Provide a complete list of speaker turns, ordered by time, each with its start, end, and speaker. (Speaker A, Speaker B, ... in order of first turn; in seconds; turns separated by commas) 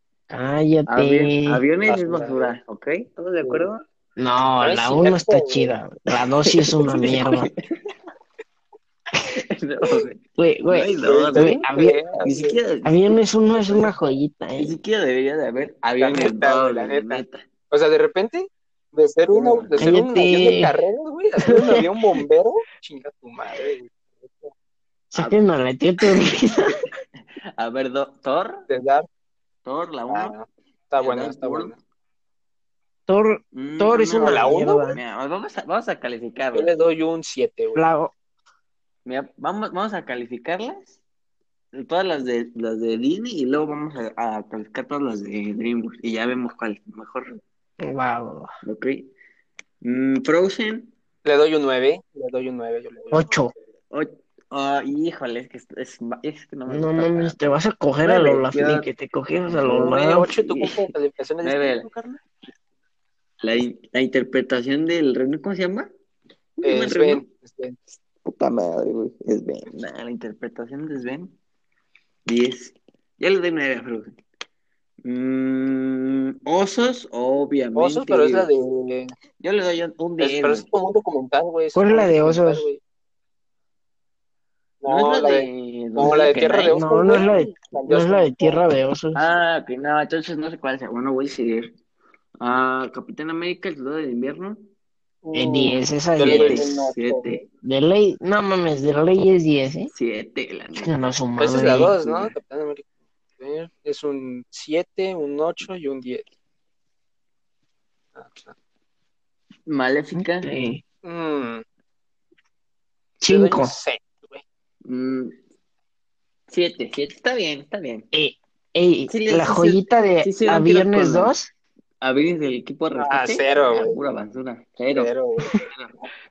Speaker A: 0.3-1.6, Speaker B: 0.9-3.8, Speaker C: 1.9-2.6, Speaker A: 4.2-7.5, Speaker C: 4.6-5.8, Speaker B: 6.5-7.9, Speaker B: 9.3-13.2, Speaker A: 10.4-12.1, Speaker C: 11.0-12.6, Speaker A: 12.8-14.8, Speaker B: 14.6-17.4, Speaker C: 16.0-24.5, Speaker B: 19.3-19.9, Speaker A: 19.8-20.7, Speaker A: 21.4-21.9, Speaker A: 25.1-26.9, Speaker B: 27.6-28.7, Speaker C: 28.7-29.1, Speaker B: 29.6-30.4, Speaker C: 30.1-31.8, Speaker B: 31.0-31.8, Speaker A: 33.1-35.0, Speaker B: 33.5-36.7, Speaker C: 34.2-34.9, Speaker C: 36.5-37.8, Speaker A: 37.8-38.1, Speaker B: 39.0-41.0, Speaker B: 41.7-47.4, Speaker A: 47.8-48.5, Speaker B: 48.6-49.1, Speaker B: 49.8-50.9, Speaker C: 51.2-53.3, Speaker A: 53.1-53.5, Speaker B: 53.9-57.5, Speaker A: 56.7-60.3, Speaker B: 58.0-58.9, Speaker B: 59.5-60.9, Speaker C: 59.7-62.1, Speaker B: 61.4-62.0, Speaker B: 63.4-65.9, Speaker B: 66.6-67.2, Speaker C: 66.6-67.8, Speaker B: 68.2-71.4, Speaker B: 72.3-74.2, Speaker B: 75.0-78.5, Speaker C: 77.8-79.1, Speaker B: 79.4-80.7, Speaker C: 80.2-82.8, Speaker A: 81.8-82.7, Speaker C: 84.8-88.6, Speaker B: 84.8-86.9, Speaker A: 86.7-89.2, Speaker B: 89.1-91.8, Speaker B: 92.4-94.7, Speaker C: 95.2-97.4, Speaker A: 95.3-96.7, Speaker B: 96.2-97.4, Speaker A: 97.6-99.9, Speaker B: 99.9-100.9, Speaker A: 100.8-102.0, Speaker C: 101.4-106.3, Speaker B: 101.9-102.3, Speaker C: 108.2-108.5, Speaker B: 109.7-110.5, Speaker A: 110.2-110.8, Speaker C: 111.0-111.6, Speaker A: 113.2-113.8, Speaker C: 113.3-114.4, Speaker B: 114.8-115.4, Speaker B: 116.5-118.1, Speaker A: 118.1-121.5, Speaker B: 119.1-121.3, Speaker B: 122.0-126.1, Speaker C: 123.0-124.0, Speaker C: 124.9-125.7